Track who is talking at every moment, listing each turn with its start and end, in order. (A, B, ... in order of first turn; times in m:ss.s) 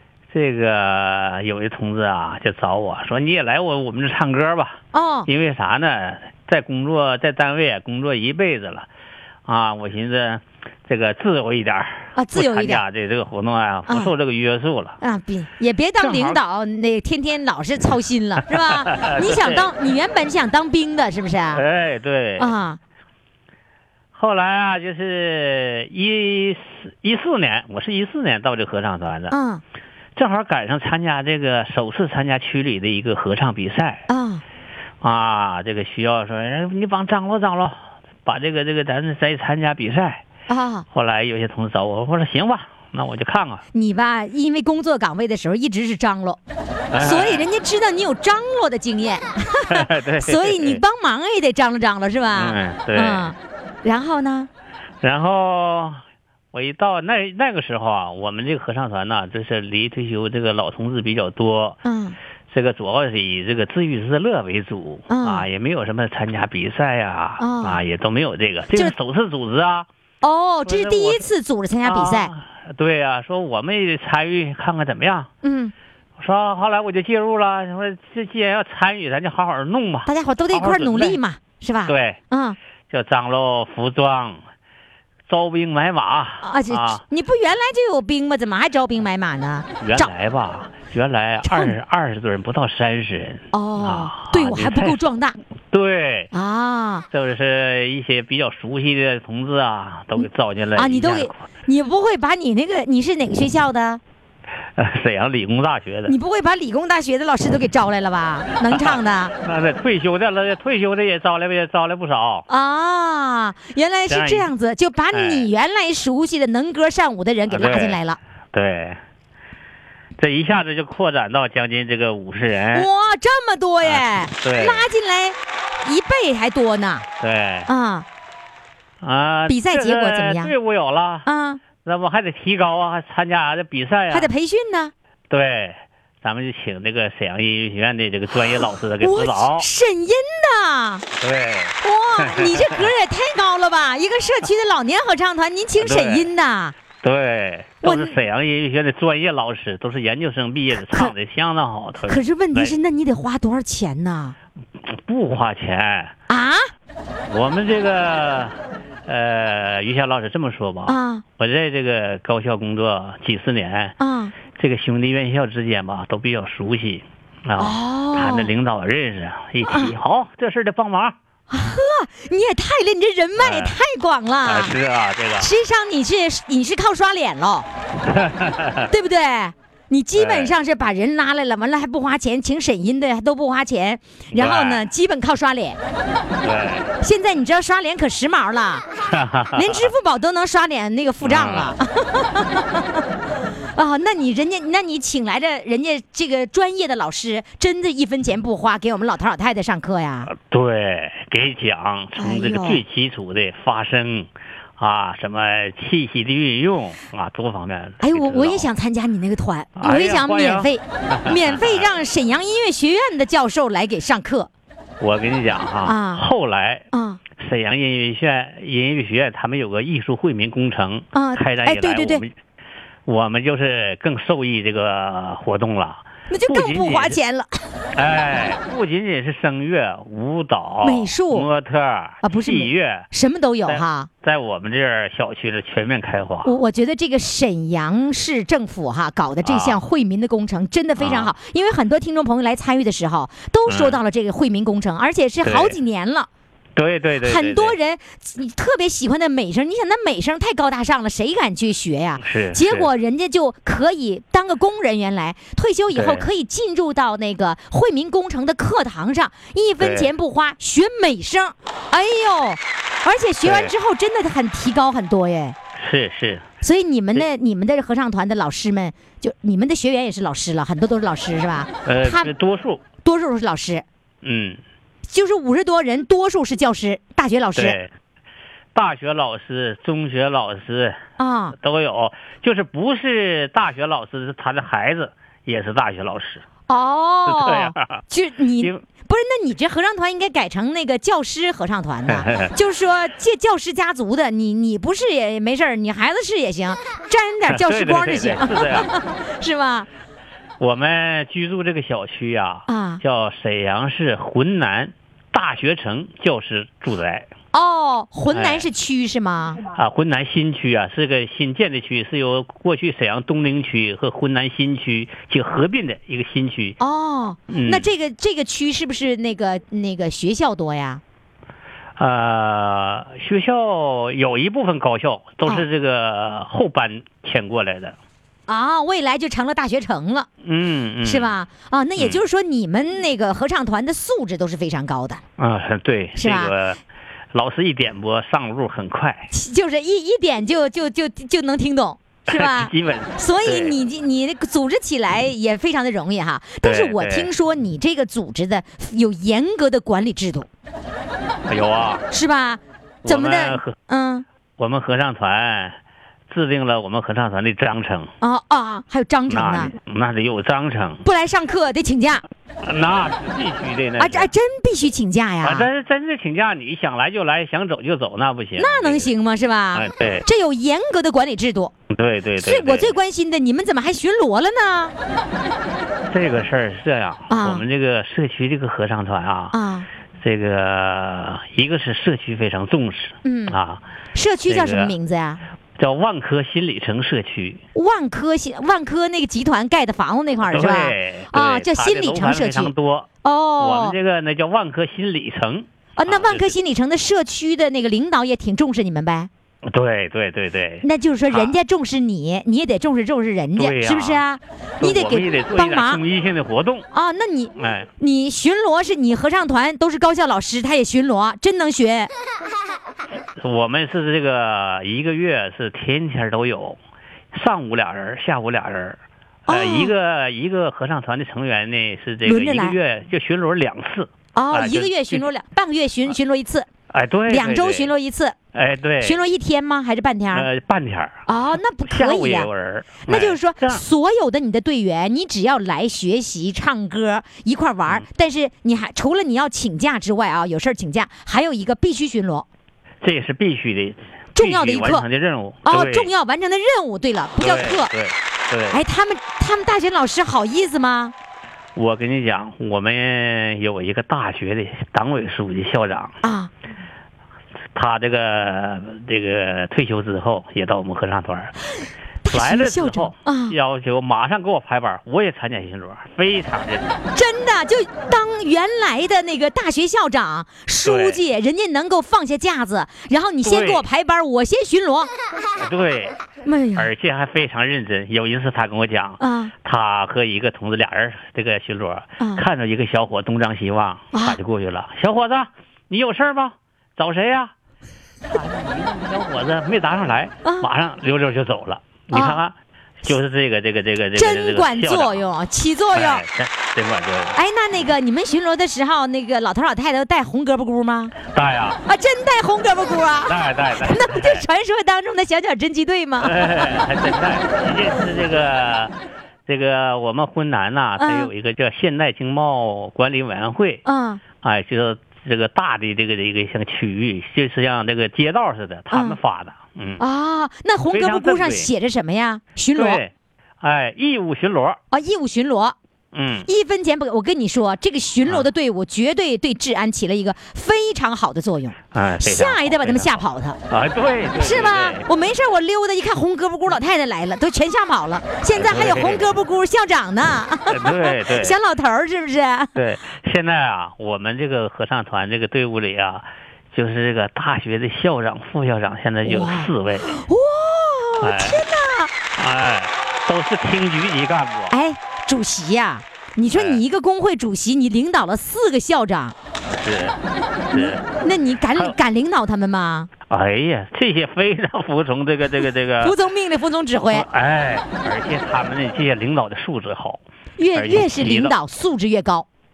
0:00.3-0:08.9 A
0:04.9-0:05.3 B
0:09.5-0:15.0 A
0:12.2-0:12.8 B
0:13.9-0:14.1 B
0:15.0-0:21.6 B
0:16.0-0:16.4 A
0:18.8-0:19.7 A
0:21.5-0:22.5 A
0:22.4-0:22.8 B
0:24.1-0:29.3 A
0:29.3-0:29.6 B
0:30.2-0:34.0 A
0:34.1-0:34.4 B
0:35.0-0:40.2 A
0:40.5-0:40.8 B
0:40.9-0:43.6 A
0:43.7-0:46.4 B
0:46.9-0:47.4 A
0:47.0-0:54.5 B
0:49.8-0:50.8 A
0:52.4-0:53.4 A
0:55.0-0:56.0 A
0:56.5-1:01.8 A
1:01.8-1:02.2 B
1:02.5-1:09.9 A
1:05.1-1:05.5 B
1:07.4-1:07.8 B
1:10.2-1:12.3 B
1:10.7-1:11.3 A
1:11.8-1:15.3 A
1:15.4-1:15.7 B
1:16.2-1:21.2 A
1:20.1-1:22.6 B
1:21.9-1:22.2 A
1:22.9-1:24.4 A
1:25.3-1:27.0 A
1:26.4-1:30.1 B
1:29.8-1:35.0 A
1:31.4-1:31.7 B
1:33.5-1:35.4 B
1:35.7-1:36.3 A
1:36.3-1:37.1 B
1:37.1-1:41.4 A
1:40.2-1:44.0 B
1:44.8-1:46.1 A
1:46.0-1:49.3 B
1:48.7-1:52.4 A
1:52.5-1:58.2 B
1:54.1-1:54.5 A
1:55.1-1:55.5 A
1:57.5-1:58.0 A
1:58.5-1:59.0 A
2:00.2-2:02.9 A
2:02.7-2:07.1 B
2:03.8-2:04.8 A
2:07.2-2:07.7 A
2:07.7-2:08.1 B
2:09.0-2:11.3 A
2:09.5-2:10.5 B
2:11.3-2:11.6 B
2:11.8-2:14.3 A
2:14.1-2:14.9 B
2:15.3-2:19.7 A
2:19.0-2:21.0 B
2:21.2-2:22.9 A
2:21.8-2:26.8 B
2:25.8-2:26.3 A
2:27.0-2:32.8 A
2:27.8-2:28.2 B
2:32.1-2:34.4 B
2:35.0-2:36.1 A
2:36.3-2:36.7 B
2:37.3-2:44.0 A
2:40.9-2:41.2 B
2:44.0-2:44.3 B
2:44.5-2:51.2 A
2:47.6-2:48.5 B
2:49.6-2:50.0 B
2:51.5-2:54.8 B
2:53.4-2:53.8 A
2:54.4-2:55.5 A
2:55.4-2:57.7 B
2:58.1-2:58.9 A
2:58.9-3:05.8 B
3:00.2-3:00.5 A
3:04.3-3:04.8 A
3:06.4-3:06.9 A
3:07.0-3:08.8 B
3:09.1-3:09.9 A
3:09.5-3:13.0 B
3:11.2-3:11.7 A
3:13.8-3:20.3 B
3:20.3-3:28.7 A
3:22.2-3:22.8 B
3:28.0-3:34.5 B
3:29.8-3:31.9 A
3:35.0-3:42.3 A
3:35.8-3:36.2 B
3:36.9-3:37.2 B
3:41.1-3:42.2 B
3:43.1-3:47.2 A
3:46.3-3:47.5 B
3:48.0-3:53.1 A
3:50.8-3:51.5 B
3:52.2-3:54.1 B
3:53.6-3:56.5 A
3:56.4-4:06.3 B
3:59.4-3:59.8 A
4:01.0-4:01.3 A
4:03.7-4:04.0 A
4:05.4-4:05.8 A
4:06.8-4:07.8 A
4:07.2-4:25.6 B
4:12.2-4:12.9 A
4:15.9-4:16.3 A
4:19.8-4:20.1 A
4:23.4-4:23.7 A
4:25.8-4:26.4 A
4:26.6-4:32.3 B
4:31.9-4:32.8 A
4:33.0-4:33.8 B
4:34.2-4:34.6 A
4:35.1-4:37.8 B
4:37.6-4:37.9 A
4:38.7-4:41.0 A
4:41.2-4:41.6 B
4:41.6-4:46.4 A
4:46.7-4:59.9 B
4:47.3-4:48.0 A
4:48.6-4:48.8 A
4:52.1-4:52.5 A
4:57.5-4:58.9 A
5:00.6-5:07.3 A
5:02.7-5:03.0 B
5:07.5-5:09.6 B
5:08.3-5:08.7 A
5:09.7-5:16.8 A
5:16.8-5:21.0 B
5:17.5-5:17.9 A
5:22.0-5:28.0 A
5:28.5-5:30.3 B
5:30.4-5:31.3 A
5:31.0-5:35.2 B
5:32.0-5:32.2 A
5:35.4-5:36.8 A
5:36.2-5:36.5 B
5:37.3-5:39.3 A
5:39.3-5:50.5 B
5:42.3-5:43.8 A
5:46.6-5:47.3 A
5:51.5-5:52.1 A
5:52.1-5:54.3 B
5:53.0-5:53.8 A
5:54.6-5:58.1 A
5:58.2-5:59.7 B
5:59.3-6:01.0 A
6:01.0-6:02.2 B
6:02.6-6:04.3 A
6:04.0-6:05.7 B
6:05.4-6:09.1 A
6:08.6-6:11.7 B
6:09.7-6:10.2 A
6:11.9-6:12.9 A
6:12.4-6:14.9 B
6:16.1-6:19.6 A
6:17.3-6:17.6 B
6:19.5-6:19.9 B
6:20.2-6:23.8 A
6:23.2-6:23.6 B
6:24.2-6:25.4 B
6:24.5-6:25.0 A
6:25.8-6:27.6 A
6:27.8-6:32.7 B
6:30.5-6:33.1 A
6:33.2-6:34.0 B
6:33.6-6:36.6 A
6:36.0-6:39.3 B
6:39.6-6:41.6 A
6:40.8-6:46.0 B
6:43.6-6:44.2 A
6:44.8-6:46.9 A
6:46.9-6:52.1 B
6:47.6-6:47.9 A
6:53.4-6:56.8 A
6:57.3-7:05.3 A
6:59.5-7:00.0 B
7:02.2-7:02.8 B
7:04.4-7:06.7 B
7:06.9-7:07.9 A
7:07.3-7:08.4 B
7:08.5-7:09.2 A
7:09.0-7:10.5 B
7:10.3-7:11.2 A
7:11.3-7:12.5 B
7:11.9-7:13.8 A
7:13.0-7:22.5 B
7:23.0-7:26.1 A
7:24.4-7:25.1 B
7:25.6-7:27.9 B
7:27.4-7:28.8 A
7:28.7-7:31.1 B
7:31.8-7:36.2 A
7:36.2-7:36.5 B
7:37.7-7:41.5 A
7:42.2-7:43.6 B
7:42.3-7:47.0 A
7:47.2-7:55.1 B
7:50.8-7:51.2 A
7:53.4-7:53.8 A
7:55.6-7:56.2 A
7:56.4-7:56.9 B
7:56.8-8:07.5 A
7:59.2-7:59.5 B
8:04.1-8:04.4 B
8:08.3-8:15.2 A
8:12.1-8:12.4 B
8:14.2-8:16.2 B
8:15.9-8:17.4 A
8:17.4-8:21.2 B
8:21.3-8:21.8 A
8:21.8-8:26.4 B
8:23.3-8:24.4 A
8:26.2-8:28.9 A
8:29.5-8:33.8 A
8:31.0-8:31.3 B
8:33.9-8:34.2 B
8:34.4-8:40.0 A
8:38.9-8:39.2 B
8:40.0-8:43.0 B
8:40.9-8:41.7 A
8:42.7-8:44.8 A
8:44.9-8:45.8 B
8:46.1-8:46.5 A
8:46.5-8:53.6 B
8:51.9-8:55.0 A
8:54.4-9:02.7 B
8:58.5-8:59.3 A
9:00.7-9:01.6 A
9:02.8-9:10.2 A
9:09.2-9:12.1 B
9:11.2-9:11.6 A
9:12.4-9:14.7 A
9:14.7-9:19.4 B
9:16.5-9:16.8 A
9:19.7-9:20.2 A
9:20.7-9:21.0 A
9:20.7-9:23.1 B
9:23.3-9:26.2 A
9:26.0-9:27.3 B
9:27.1-9:30.2 A
9:30.6-9:32.5 B
9:30.7-9:31.6 A